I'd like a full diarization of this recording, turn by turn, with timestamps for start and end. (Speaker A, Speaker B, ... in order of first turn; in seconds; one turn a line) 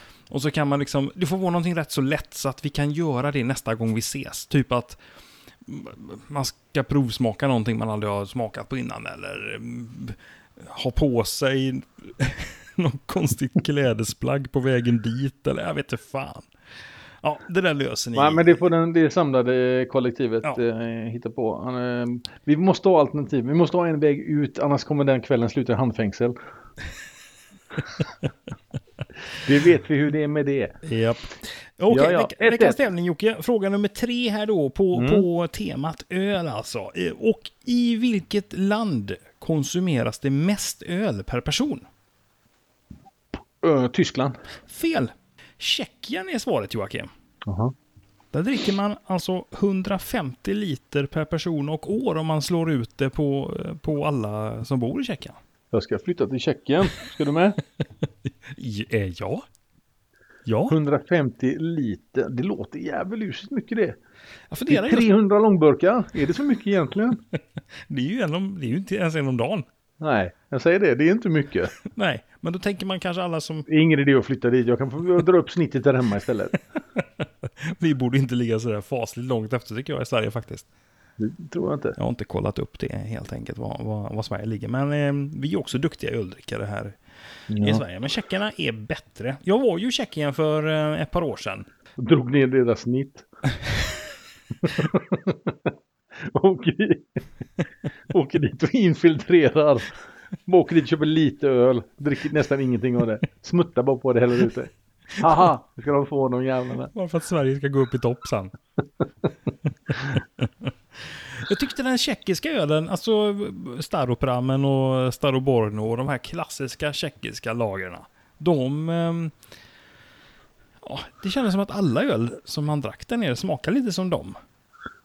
Speaker A: 0.3-5.0
Speaker A: 5.7-16.5
Speaker A: 17.2-18.5
Speaker B: 18.1-26.4
Speaker B: 29.4-30.8
Speaker A: 30.9-41.8
Speaker B: 31.9-32.8
Speaker B: 34.9-35.3
Speaker B: 43.6-44.4
Speaker A: 44.7-47.1
Speaker B: 47.5-47.7
Speaker A: 48.3-55.4
Speaker B: 55.7-57.6
Speaker A: 58.5-59.5
Speaker A: 60.5-60.8
Speaker B: 60.7-64.0
Speaker A: 64.5-65.1
Speaker B: 64.7-67.2
Speaker A: 67.9-69.7
Speaker B: 70.0-71.7
Speaker A: 71.9-73.7
Speaker B: 73.7-76.6
Speaker A: 77.0-80.7
Speaker B: 81.2-82.0
Speaker A: 82.0-87.0
Speaker B: 87.5-87.8
Speaker A: 87.6-91.7
Speaker B: 92.0-93.2
Speaker B: 94.6-97.2
Speaker B: 98.1-106.9
Speaker A: 106.9-108.5
Speaker A: 109.9-119.3
Speaker A: 120.8-124.4